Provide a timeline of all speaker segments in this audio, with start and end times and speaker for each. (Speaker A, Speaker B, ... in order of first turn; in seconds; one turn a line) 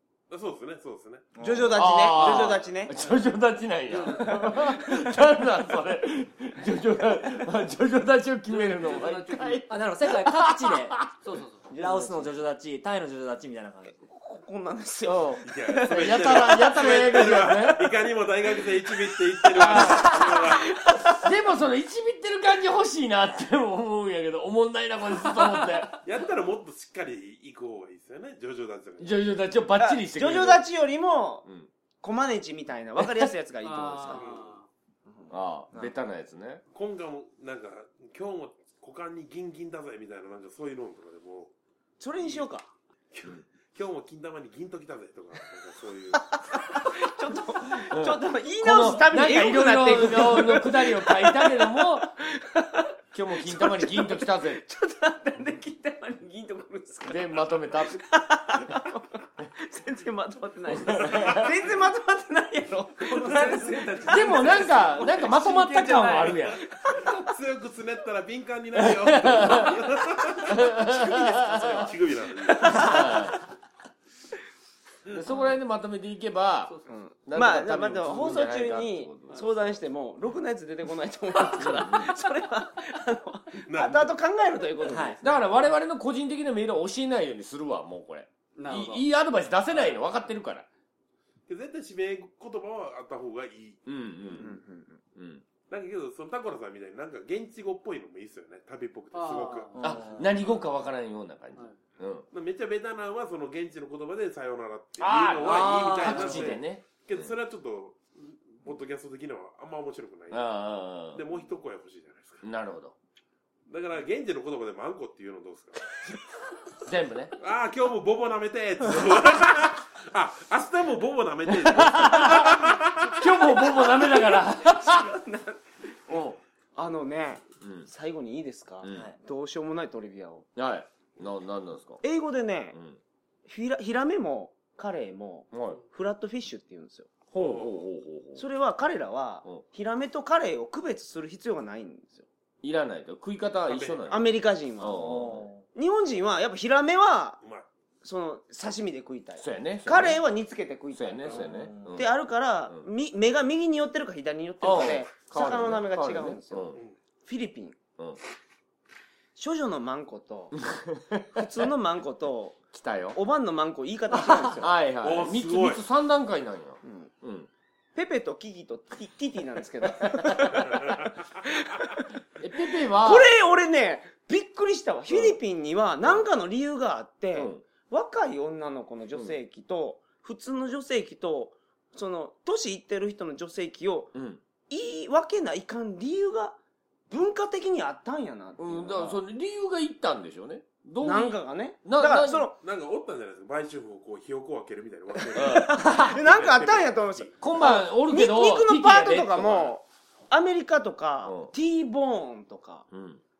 Speaker A: 0.3-1.3
Speaker B: 1.4-2.1
Speaker C: 1.4-2.9
Speaker D: 1.7-11.0
Speaker E: 3.9-5.2
Speaker E: 8.4-9.6
Speaker B: 9.7-11.1
Speaker E: 11.2-11.7
Speaker B: 11.7-13.9
Speaker C: 11.7-12.4
Speaker C: 14.0-17.7
Speaker D: 15.1-18.0
Speaker A: 15.4-20.8
Speaker D: 19.5-26.0
Speaker C: 19.6-21.3
Speaker E: 25.2-25.8
Speaker A: 26.0-29.4
Speaker D: 29.0-30.6
Speaker C: 29.7-31.4
Speaker C: 32.0-34.4
Speaker E: 33.6-34.7
Speaker A: 34.0-34.5
Speaker D: 35.3-36.6
Speaker A: 36.7-41.5
Speaker C: 42.0-42.7
Speaker A: 43.1-46.8
Speaker C: 46.5-64.5
Speaker D: 47.8-52.1
Speaker D: 53.1-54.6
Speaker D: 57.0-58.1
Speaker A: 60.9-61.5
Speaker D: 60.9-61.4
Speaker E: 63.1-66.6
Speaker A: 63.3-63.8
Speaker D: 64.1-66.6
Speaker C: 66.7-67.2
Speaker A: 66.9-73.0
Speaker D: 68.8-69.8
Speaker D: 70.5-71.9
Speaker E: 71.2-71.9
Speaker C: 72.5-73.3
Speaker D: 72.6-73.5
Speaker D: 75.1-79.5
Speaker E: 76.7-76.9
Speaker C: 76.9-85.4
Speaker D: 81.6-82.1
Speaker A: 83.7-84.1
Speaker B: 84.8-85.2
Speaker D: 85.2-90.7
Speaker E: 88.5-89.1
Speaker E: 89.7-90.0
Speaker A: 91.5-93.8
Speaker D: 93.8-94.6
Speaker C: 94.3-95.0
Speaker D: 95.1-95.4
Speaker A: 95.7-99.7
Speaker E: 99.1-100.5
Speaker B: 99.8-100.2
Speaker D: 99.8-102.3
Speaker A: 102.3-112.4
Speaker D: 105.0-107.3
Speaker B: 105.4-106.5
Speaker D: 110.3-111.2
Speaker D: 112.4-112.9
Speaker A: 113.7-115.8
Speaker D: 116.8-117.3
Speaker A: 117.4-123.1
Speaker D: 121.5-125.1
Speaker C: 123.3-125.7
Speaker D: 126.1-126.4
Speaker C: 126.8-130.5
Speaker D: 127.6-127.9
Speaker D: 128.8-129.1
Speaker B: 128.9-129.1
Speaker D: 130.6-132.0
Speaker C: 132.0-132.8
Speaker D: 132.7-133.0
Speaker C: 133.4-137.1
Speaker D: 135.5-135.8
Speaker D: 137.3-138.4
Speaker A: 137.3-137.8
Speaker C: 138.3-142.2
Speaker D: 142.6-144.2
Speaker A: 143.7-144.2
Speaker C: 144.1-147.4
Speaker D: 144.8-145.5
Speaker B: 144.9-145.6
Speaker A: 147.4-147.7
Speaker C: 148.0-156.7
Speaker D: 149.4-150.2
Speaker D: 150.9-152.9
Speaker B: 151.3-152.0
Speaker D: 154.6-156.8
Speaker C: 157.2-157.8
Speaker C: 159.3-160.5
Speaker D: 160.7-161.4
Speaker C: 161.3-162.6
Speaker D: 162.7-163.2
Speaker C: 163.1-164.7
Speaker D: 164.3-167.5
Speaker A: 165.0-165.8
Speaker C: 166.8-167.1
Speaker C: 167.9-172.1
Speaker A: 170.6-171.3
Speaker D: 172.4-173.3
Speaker C: 172.7-184.1
Speaker D: 175.1-175.4
Speaker D: 177.3-177.6
Speaker D: 184.1-184.4
Speaker C: 184.7-186.6
Speaker C: 187.1-189.2
Speaker D: 188.6-192.5
Speaker C: 191.0-192.5
Speaker A: 192.6-197.4
Speaker C: 195.3-202.9
Speaker D: 195.3-196.1
Speaker D: 197.4-199.7
Speaker D: 201.2-201.5
Speaker D: 202.9-203.2